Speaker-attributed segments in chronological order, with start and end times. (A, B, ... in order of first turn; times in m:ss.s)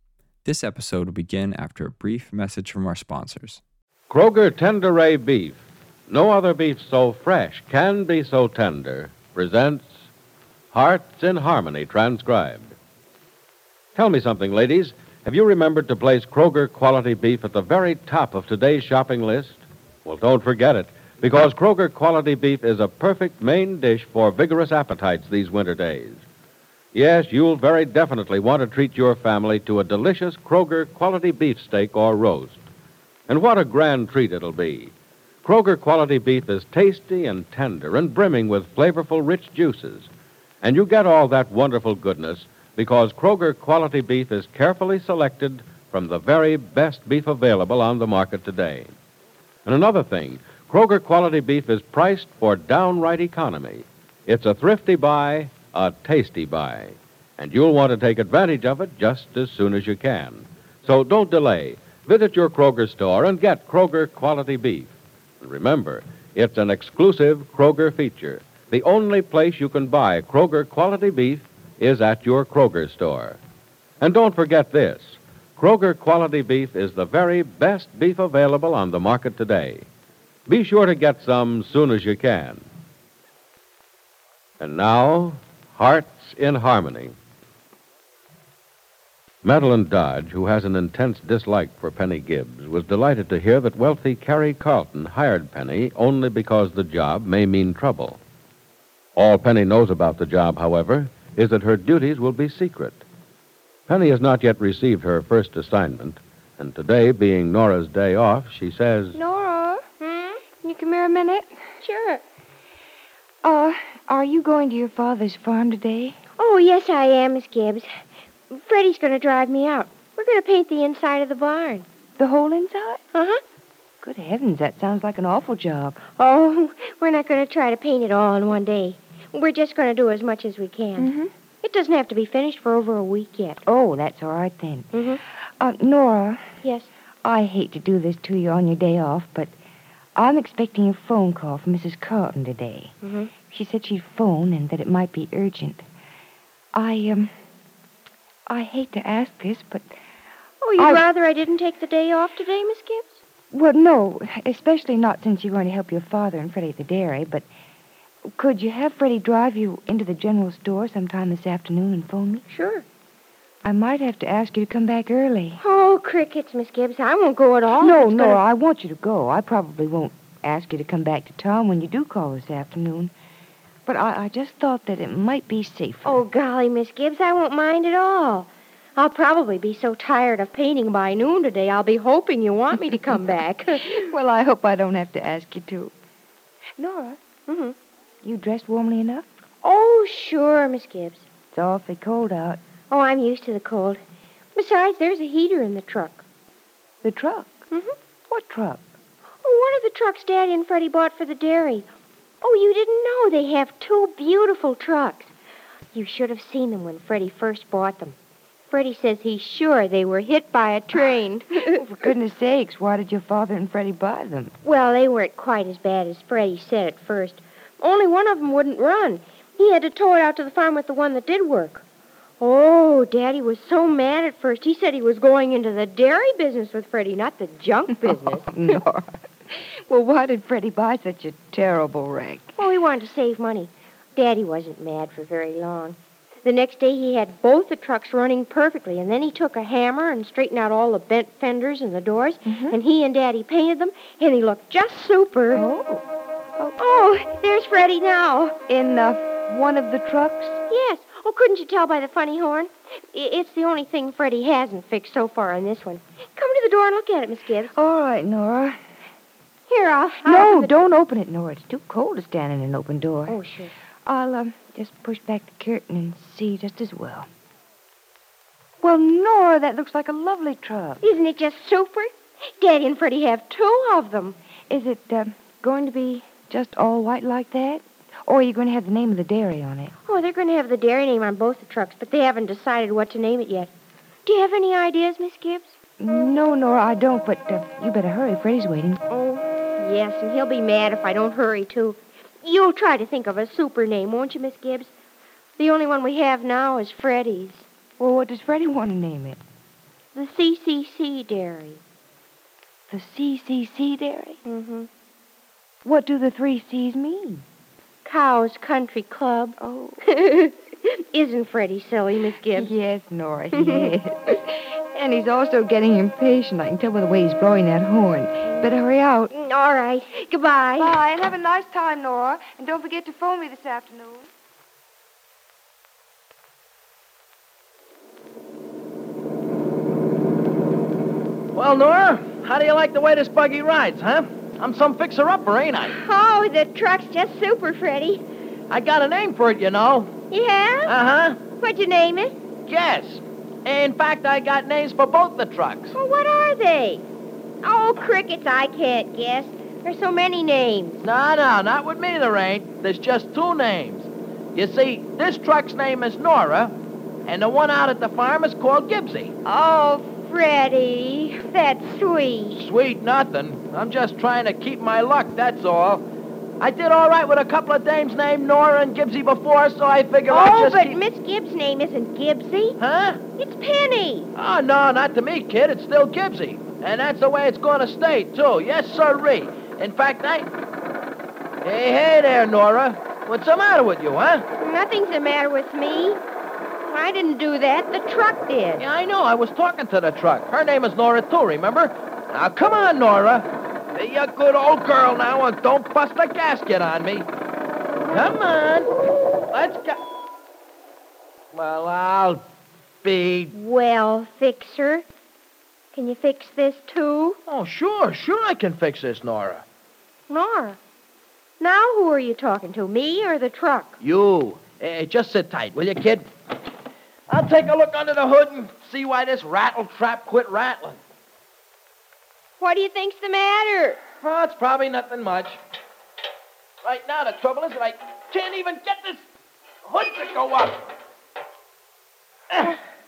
0:00.4-0:03.6 A
0:04.1-0:10.0 B
0:10.7-0:12.8 B
0:14.0-0:26.2 B
0:26.9-0:32.7 B
0:33.3-0:40.1 B
0:40.6-0:48.9 B
0:49.6-1:13.4 B
1:14.0-1:19.9 B
1:20.5-1:22.6 B
1:24.6-1:27.1 B
1:29.4-1:38.2 B
1:39.2-1:43.0 B
1:43.9-1:49.2 B
1:49.1-1:49.8 C
1:50.0-1:50.4 D
1:50.6-1:51.5 C
1:51.8-1:52.2 D
1:53.4-1:56.2 C
1:56.4-1:57.9 D
1:58.5-2:01.8 D
2:02.2-2:03.0 C
2:03.1-2:03.4 D
2:04.0-2:06.0 C
2:06.2-2:11.1 D
2:11.0-2:11.3 C
2:11.6-2:13.6 D
2:13.6-2:16.4 C
2:14.9-2:15.2 D
2:16.6-2:16.9 D
2:17.2-2:19.5 C
2:20.2-2:22.9 C
2:23.0-2:23.3 D
2:23.5-2:25.8 C
2:26.7-2:27.3 C
2:28.5-2:29.9 C
2:30.6-2:33.2 D
2:30.8-2:31.0 C
2:33.5-2:37.4 C
2:38.4-2:42.4 C
2:42.5-2:42.8 D
2:43.6-2:45.6 C
2:45.6-2:48.4 D
2:47.8-2:53.1 C
2:53.8-2:56.2 C
2:56.0-3:04.0 D
3:03.8-3:05.9 C
3:06.8-3:07.2 C
3:07.5-3:07.7 D
3:08.2-3:09.3 C
3:09.6-3:11.2 D
3:11.5-3:12.6 C
3:12.9-3:14.0 D
3:14.5-3:16.2 D
3:17.0-3:17.6 C
3:18.3-3:18.8 C
3:19.4-3:21.9 D
3:22.4-3:25.3 D
3:25.9-3:28.2 D
3:28.7-3:31.8 D
3:31.6-3:34.5 C
3:34.6-3:41.8 D
3:42.4-3:48.5 D
3:47.9-3:52.6 C
3:52.6-4:05.6 D
4:02.4-4:02.8 C
4:05.5-4:06.0 C
4:06.8-4:08.6 D
4:08.7-4:10.6 C
4:10.7-4:17.8 D
4:17.7-4:18.8 C
4:19.7-4:20.8 D
4:20.2-4:23.4 C
4:23.3-4:23.7 D
4:24.0-4:27.3 C
4:28.8-4:31.0 C
4:31.0-4:34.4 D
4:34.7-4:39.9 C
4:40.0-4:43.7 D
4:44.2-4:45.7 D
4:46.0-4:49.0 C
4:49.1-4:54.9 D
4:55.6-4:57.7 D
4:58.0-4:59.4 C
5:00.1-5:01.8 D
5:02.9-5:04.4 C
5:04.4-5:04.9 D
5:05.8-5:07.4 C
5:08.0-5:12.7 D
5:09.6-5:10.0 C
5:12.5-5:19.3 C
5:13.5-5:13.9 D
5:18.5-5:18.7 D
5:19.3-5:21.0 D
5:20.8-5:24.3 C
5:31.5-5:36.0 E
5:35.9-5:38.2 D
5:38.7-5:40.1 E
5:40.3-5:40.9 D
5:40.8-5:41.4 E
5:41.6-5:42.3 D
5:42.6-5:45.9 E
5:45.9-5:47.0 D
5:47.6-5:51.0 D
5:51.0-5:59.3 E
5:59.4-6:02.6 D
6:02.5-6:06.0 E
6:06.6-6:11.0 E
6:10.3-6:12.8 D
6:12.8-6:13.2 E
6:13.4-6:14.3 D
6:14.3-6:20.5 E
6:21.6-6:24.4 E
6:24.6-6:26.2 D
6:26.8-6:28.8 D
6:28.8-6:37.3 E
6:38.1-6:38.9 E
6:39.5-6:40.0 E
6:41.5-6:42.4 E
6:43.0-6:43.5 E
6:43.5-6:45.0 D
6:45.9-6:47.4 D
6:47.5-6:49.6 E
6:50.3-6:50.8 D
6:51.6-6:54.0 D
6:54.0-6:56.2 E
6:57.3-7:01.0 E
7:02.6-7:04.0 D
7:04.2-7:05.6 E
7:06.8-7:09.2 E
7:09.8-7:10.9 E